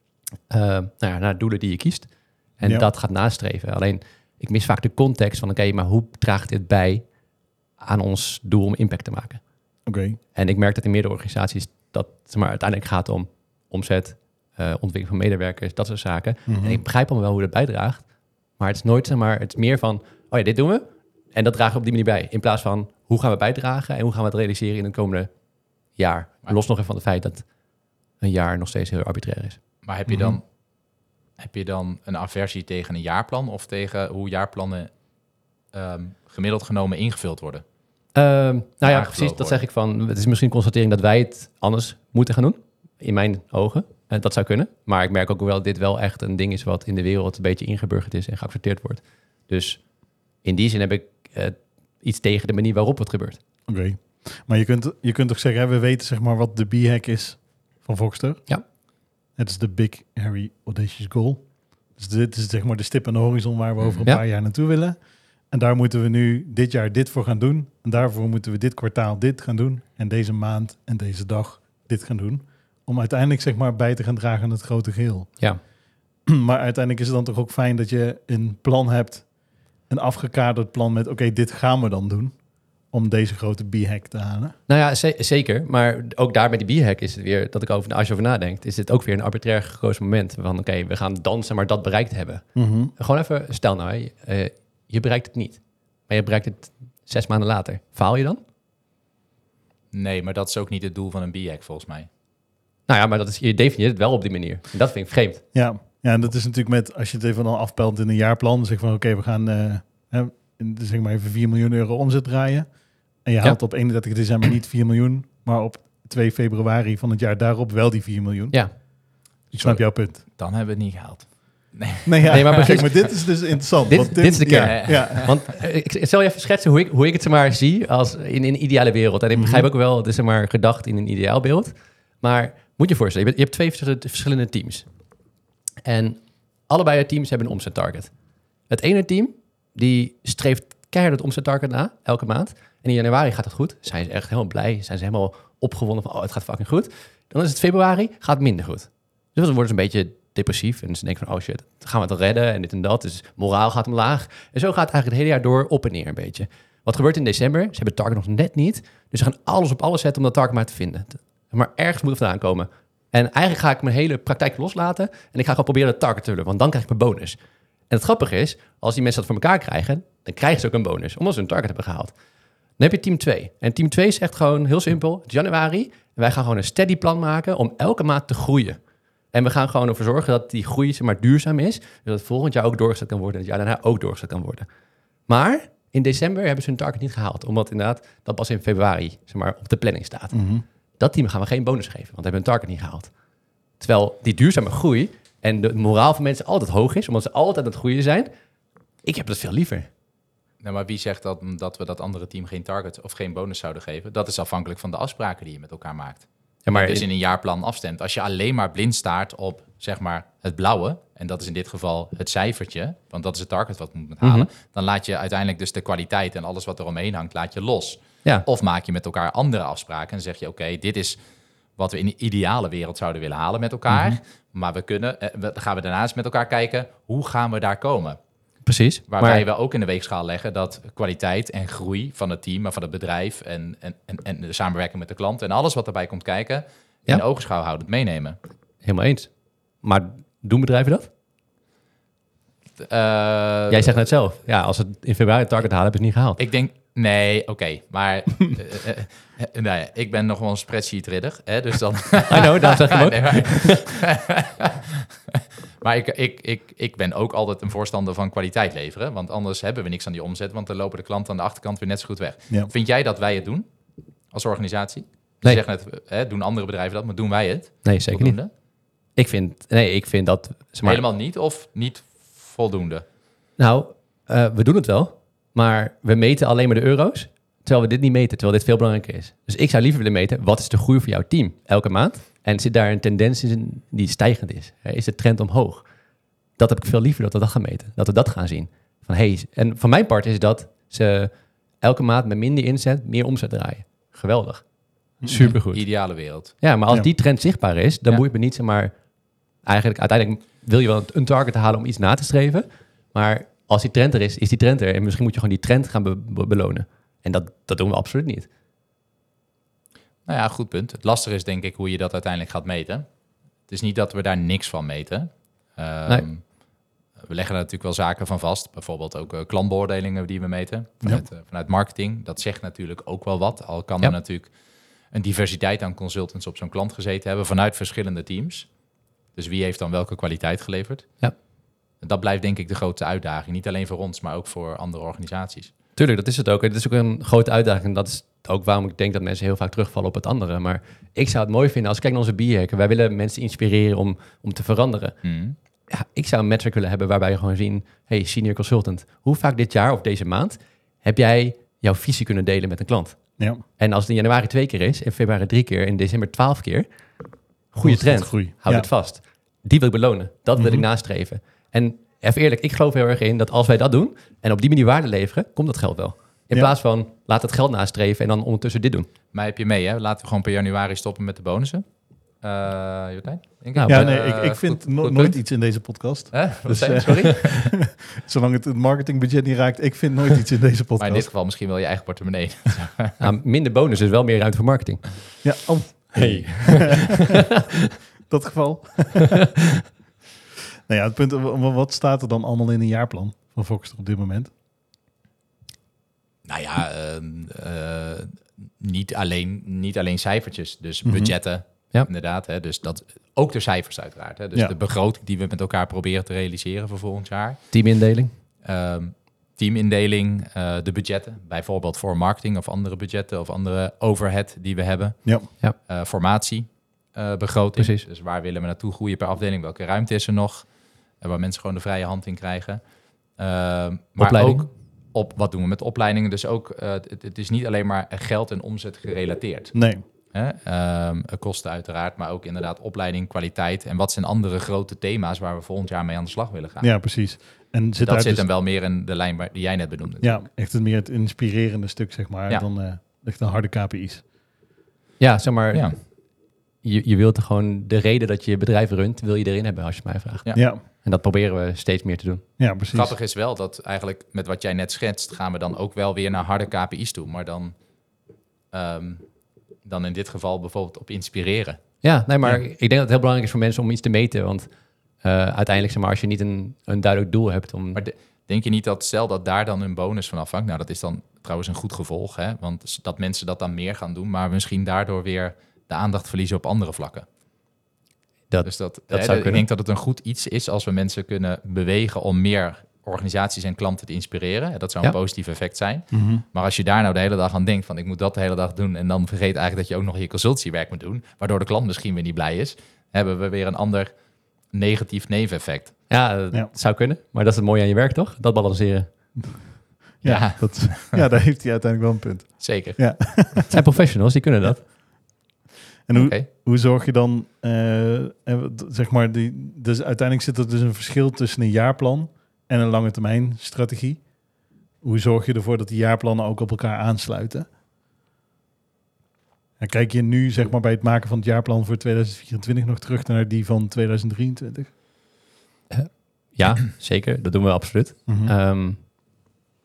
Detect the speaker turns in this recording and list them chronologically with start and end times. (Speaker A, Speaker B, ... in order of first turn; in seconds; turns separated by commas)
Speaker A: 0.5-7.1, Speaker B: 2.6-2.9, Speaker A: 7.8-9.4, Speaker B: 9.9-10.2, Speaker A: 10.3-25.3, Speaker B: 16.5-16.8, Speaker A: 25.9-27.5, Speaker A: 28.2-29.6, Speaker C: 29.8-30.5, Speaker B: 30.1-30.4, Speaker C: 31.4-34.9, Speaker C: 35.7-37.6, Speaker A: 38.1-53.4, Speaker C: 38.8-39.6, Speaker B: 53.7-58.5, Speaker B: 59.4-75.7, Speaker C: 63.8-64.1, Speaker B: 76.3-84.6, Speaker A: 84.7-98.4, Speaker B: 92.6-92.9, Speaker C: 99.9-102.1, Speaker A: 102.9-105.4, Speaker B: 105.5-118.9, Speaker B: 119.5-120.2, Speaker C: 119.5-123.0, Speaker B: 122.0-125.3, Speaker A: 122.3-123.3, Speaker A: 123.8-134.9, Speaker C: 124.6-125.3, Speaker B: 129.3-129.7, Speaker A: 135.8-138.1, Speaker A: 138.7-167.4, Speaker A: 167.9-172.1, Speaker A: 172.8-178.8, Speaker A: 179.3-184.7, Speaker A: 185.3-190.5, Speaker B: 190.3-190.6, Speaker A: 191.0-193.1, Speaker A: 193.8-198.3, Speaker A: 199.0-199.9, Speaker C: 200.6-221.2, Speaker A: 206.7-207.1, Speaker A: 214.2-214.5, Speaker C: 221.8-228.2, Speaker A: 223.9-224.2, Speaker A: 228.7-229.4, Speaker C: 229.1-238.4, Speaker A: 238.8-241.1, Speaker C: 242.8-244.0, Speaker A: 243.7-246.4, Speaker C: 246.4-268.5, Speaker A: 252.3-253.9, Speaker A: 267.8-268.5, Speaker A: 269.1-271.0, Speaker C: 270.8-273.1, Speaker A: 273.6-285.9, Speaker A: 286.6-298.9, Speaker B: 295.2-295.6, Speaker C: 295.7-296.6, Speaker A: 299.6-308.5, Speaker C: 310.3-313.1, Speaker C: 313.6-316.6, Speaker C: 317.2-328.8, Speaker C: 329.3-331.2, Speaker C: 332.0-335.7, Speaker A: 336.0-345.2, Speaker C: 345.2-345.6, Speaker A: 345.9-356.9, Speaker A: 357.7-369.1, Speaker B: 357.8-358.9, Speaker B: 360.6-360.9, Speaker C: 369.3-375.5, Speaker A: 373.8-374.1, Speaker B: 373.9-381.3, Speaker C: 376.3-377.7, Speaker C: 381.0-383.2, Speaker A: 383.2-385.5, Speaker B: 385.4-386.9, Speaker A: 386.1-387.4, Speaker B: 388.3-389.4, Speaker B: 390.9-394.5, Speaker C: 396.5-407.8, Speaker B: 401.0-401.4, Speaker A: 407.7-408.3, Speaker C: 408.6-436.9, Speaker B: 415.2-415.5, Speaker A: 417.8-418.1, Speaker A: 424.2-424.7, Speaker B: 429.7-430.0, Speaker B: 436.8-438.5, Speaker C: 438.0-440.4, Speaker B: 440.2-444.2, Speaker A: 445.2-446.2, Speaker C: 445.7-446.0, Speaker A: 446.8-452.4, Speaker B: 450.5-450.8, Speaker B: 452.6-453.1, Speaker C: 452.9-457.8, Speaker C: 458.7-459.3, Speaker C: 459.8-461.8, Speaker A: 462.0-464.7, Speaker A: 465.2-468.0, Speaker C: 467.9-477.3, Speaker A: 478.5-479.6, Speaker C: 478.6-496.0, Speaker B: 486.1-486.4, Speaker A: 496.1-499.6, Speaker B: 499.5-503.7, Speaker C: 500.2-501.2, Speaker C: 502.6-503.3, Speaker A: 503.7-504.9, Speaker B: 506.1-514.3, Speaker C: 506.1-506.5, Speaker B: 515.0-517.7, Speaker B: 519.8-524.9, Speaker A: 525.9-529.0, Speaker B: 528.3-528.5